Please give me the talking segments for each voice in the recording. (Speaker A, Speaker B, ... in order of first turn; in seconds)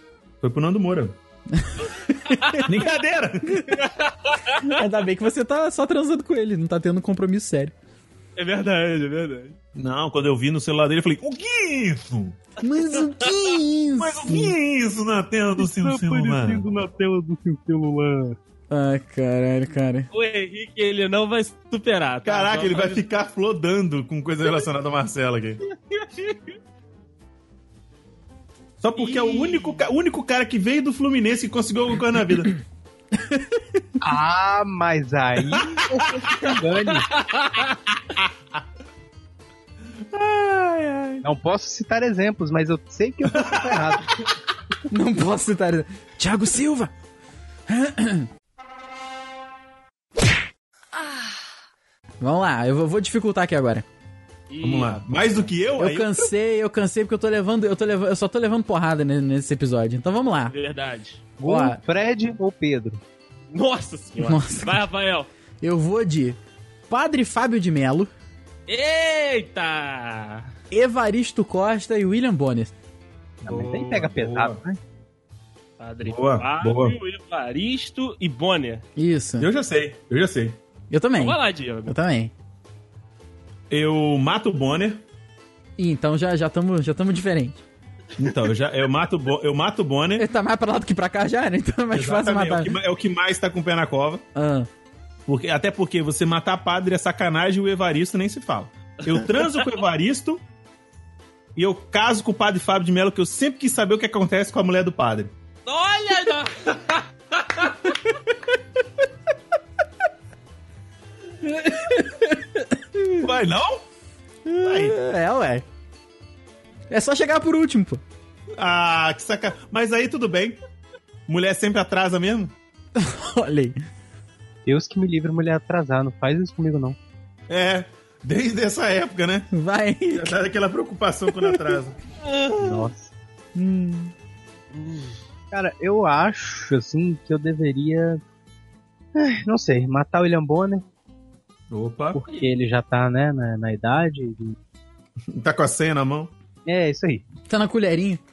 Speaker A: 0.4-1.2, 2.6-3.8, 9.8-12.4, 14.0-16.6, 22.2-25.6, 28.8-32.6, 35.5-36.3, 40.1-41.2, 43.3-44.0, 54.6-56.3, 73.4-74.6, 76.0-77.0, 79.4-80.6, 83.7-85.0, 88.2-90.3, 91.9-94.2, 95.3-100.4, 101.6-105.3, 113.2-113.8, 114.6-115.0, 118.6-120.6, 121.3-122.5, 127.5-129.5, 130.1-132.0, 141.7-142.2, 145.3-146.3
Speaker B: 1.5-2.7, 3.5-3.8, 4.6-7.7, 12.6-14.6, 18.7-20.1, 33.2-33.6, 44.9-46.9, 47.7-48.3, 52.2-53.9, 55.8-60.5, 61.5-61.8, 64.2-64.8, 65.6-66.4, 66.9-68.1, 70.7-72.7, 79.0-79.5, 80.9-82.3, 85.8-87.6, 90.2-92.8, 94.3-94.7, 111.5-113.3, 114.5-115.6, 116.9-118.0, 123.0-123.8, 129.5-130.3, 133.6-134.1, 147.5-148.2
Speaker C: 3.8-4.8, 8.4-9.6, 12.9-13.3, 20.1-23.0, 25.9-26.4, 29.0-29.8, 37.1-37.8, 54.5-55.4, 60.5-61.2, 63.5-65.3, 68.7-70.5, 75.8-78.8, 81.2-82.0, 99.0-99.7, 105.7-107.9, 134.7-135.2
Speaker D: 15.6-18.4, 34.0-37.1, 41.2-44.3, 61.4-63.0, 73.5-74.8, 124.7-127.0, 132.5-133.1, 135.5-138.2, 139.2-140.8, 142.1-144.6, 146.7-147.2